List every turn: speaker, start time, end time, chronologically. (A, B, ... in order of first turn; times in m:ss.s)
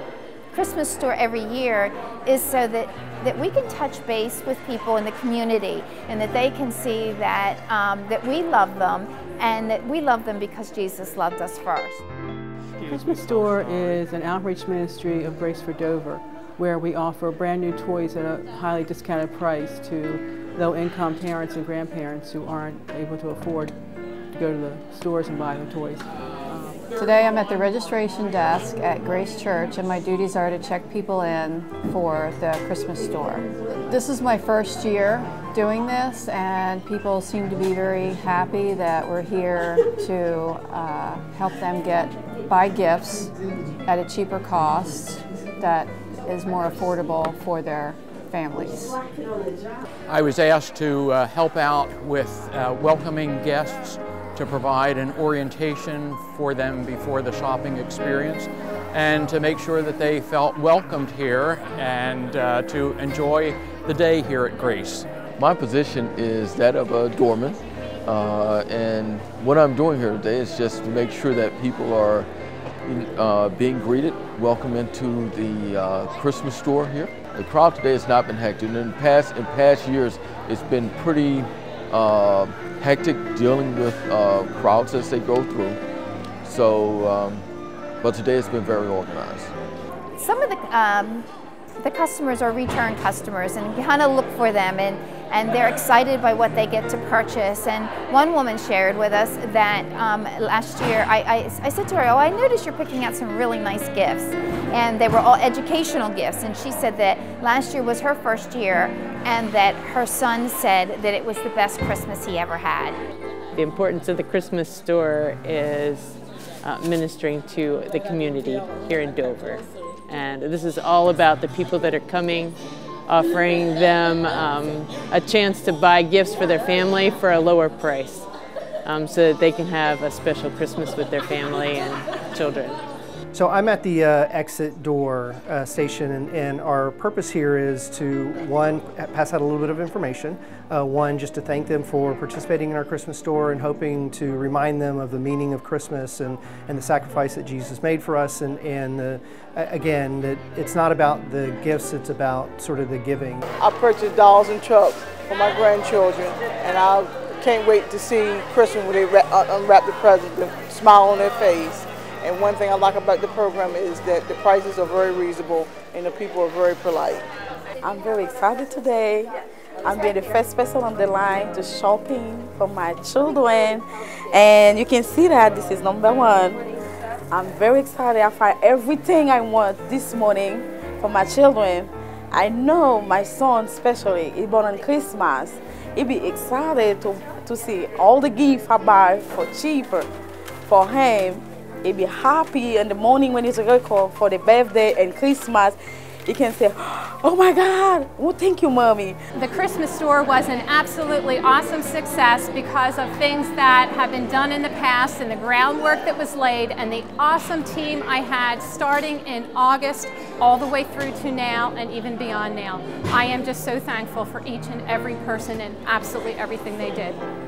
0:00.5-0:12.0 A
0:12.8-0:23.8 B
0:13.5-0:13.8 C
0:24.3-0:26.8 B
0:27.0-0:43.4 D
0:43.9-0:49.0 D
0:50.1-1:05.1 C
1:05.4-1:12.3 E
1:12.8-1:25.8 E
1:26.4-1:27.4 E
1:28.0-1:29.5 E
1:30.2-1:31.3 A
1:31.8-1:53.0 A
1:53.6-2:08.3 F
2:08.8-2:12.8 F
2:13.3-2:33.4 G
2:33.6-2:47.3 H
2:47.8-2:49.3 I
2:49.8-2:56.6 I
2:57.3-3:10.1 I
3:10.7-3:19.2 I
3:19.4-3:37.2 J